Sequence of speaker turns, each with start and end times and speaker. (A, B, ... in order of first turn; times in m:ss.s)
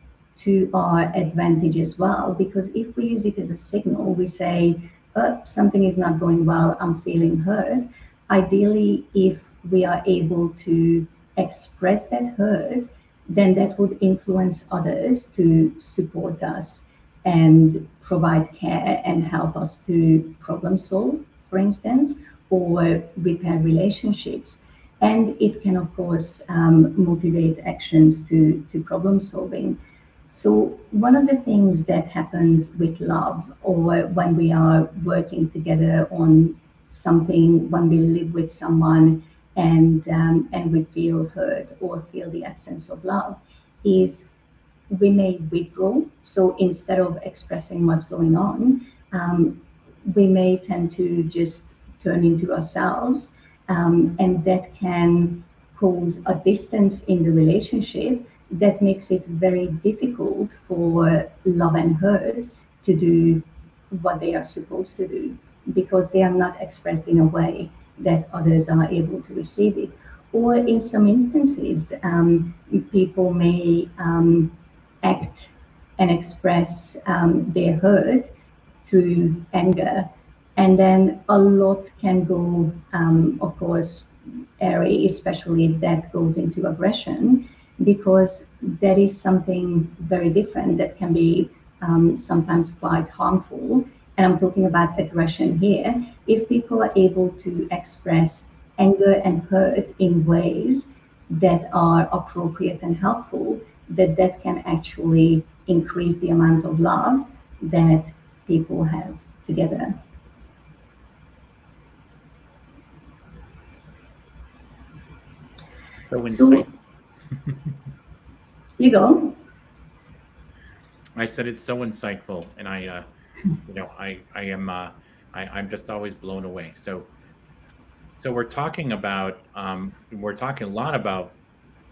0:00.4-0:29.8 A
0:30.3-0:44.3 A
0:44.9-1:18.3 A
1:18.9-1:50.0 A
1:56.1-1:56.7 B
1:56.3-1:56.7 A
1:57.3-1:57.7 B
1:58.8-1:59.4 A
2:01.2-2:03.1 B
2:03.6-2:07.1 B
2:08.2-2:11.3 B